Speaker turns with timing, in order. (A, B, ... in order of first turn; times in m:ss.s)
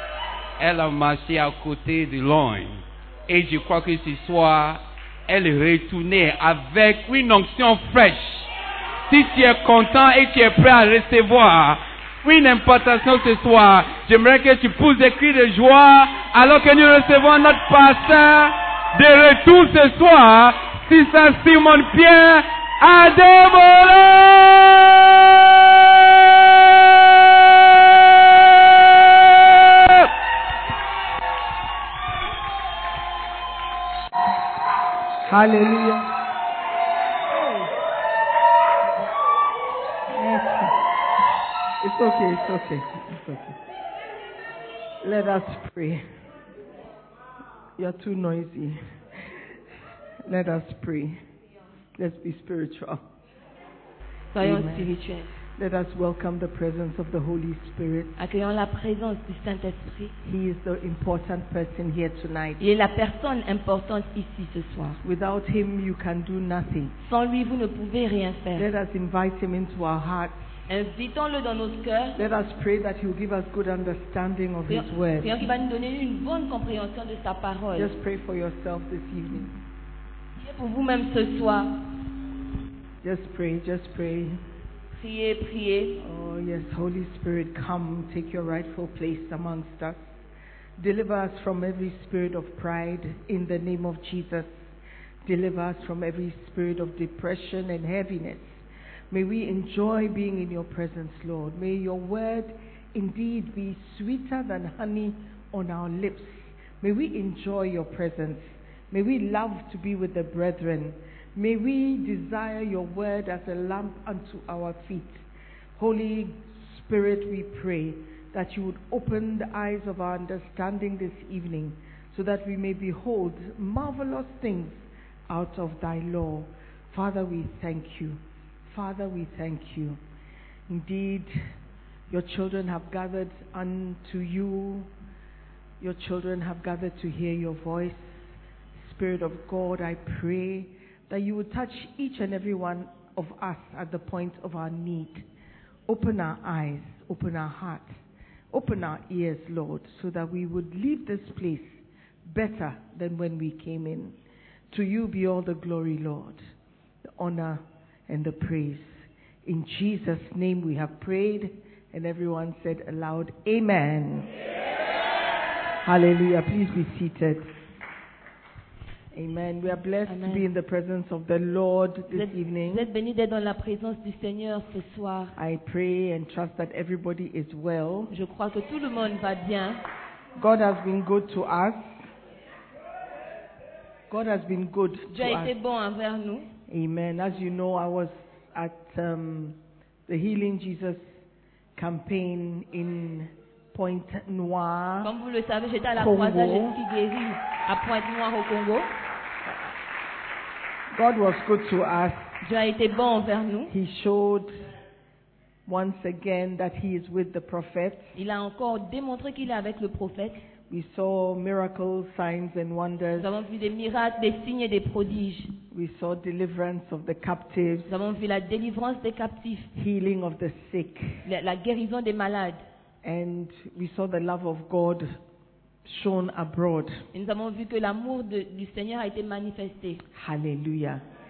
0:00.6-0:08.5 A
0:09.1-0:30.1 A
0:35.2-0:36.1 B
0:37.3-0:37.7 B
0:40.1-0:40.7 B
0:41.8-0:43.6 B
0:45.0-0:46.0 B
0:47.8-0:49.3 B
0:50.2-0:51.2 B
0:52.0-0:53.0 B
0:54.3-0:55.3 C
0:54.4-0:54.9 B
0:55.5-0:58.1 B
0:58.2-1:00.1 C
1:00.2-1:02.6 B
1:02.6-1:05.0 C
1:05.0-1:06.9 B
1:07.0-1:08.7 C
1:08.6-1:10.6 B
1:10.7-1:12.2 C
1:12.2-1:15.3 B
1:14.7-1:17.9 C
1:17.7-1:19.6 B
1:20.4-1:21.9 C
1:23.0-1:24.4 B
1:24.9-1:26.0 C
1:26.0-1:30.1 B
1:30.8-1:34.7 B
1:35.2-2:10.0 B
2:10.7-2:11.5 B
2:12.1-2:14.9 B
2:15.8-2:25.3 B
2:25.9-2:27.9 B
2:28.5-2:34.2 B
2:34.7-2:36.4 B
2:37.0-2:44.3 B
2:45.8-2:47.5 B
2:49.1-2:52.9 B
2:50.0-2:50.5 C
2:52.1-2:55.4 C
2:55.4-2:58.1 B
2:58.1-2:59.8 C
3:00.4-3:02.1 B
3:04.1-3:05.5 B
3:05.1-3:06.5 C
3:06.7-3:11.2 B
3:11.8-3:15.1 B
3:15.0-3:18.9 C
3:16.0-3:16.8 B
3:20.9-3:22.4 B
3:22.4-3:23.7 C
3:23.7-3:24.6 B
3:25.6-3:28.1 B
3:28.2-3:30.4 C
3:30.7-3:33.3 B
3:33.2-3:35.5 C
3:35.7-3:37.9 B
3:37.9-3:39.7 C
3:39.7-3:41.2 B
3:41.2-3:42.6 C
3:43.0-3:45.2 B
3:45.8-3:47.0 B
3:47.1-3:50.0 C
3:50.1-3:51.0 B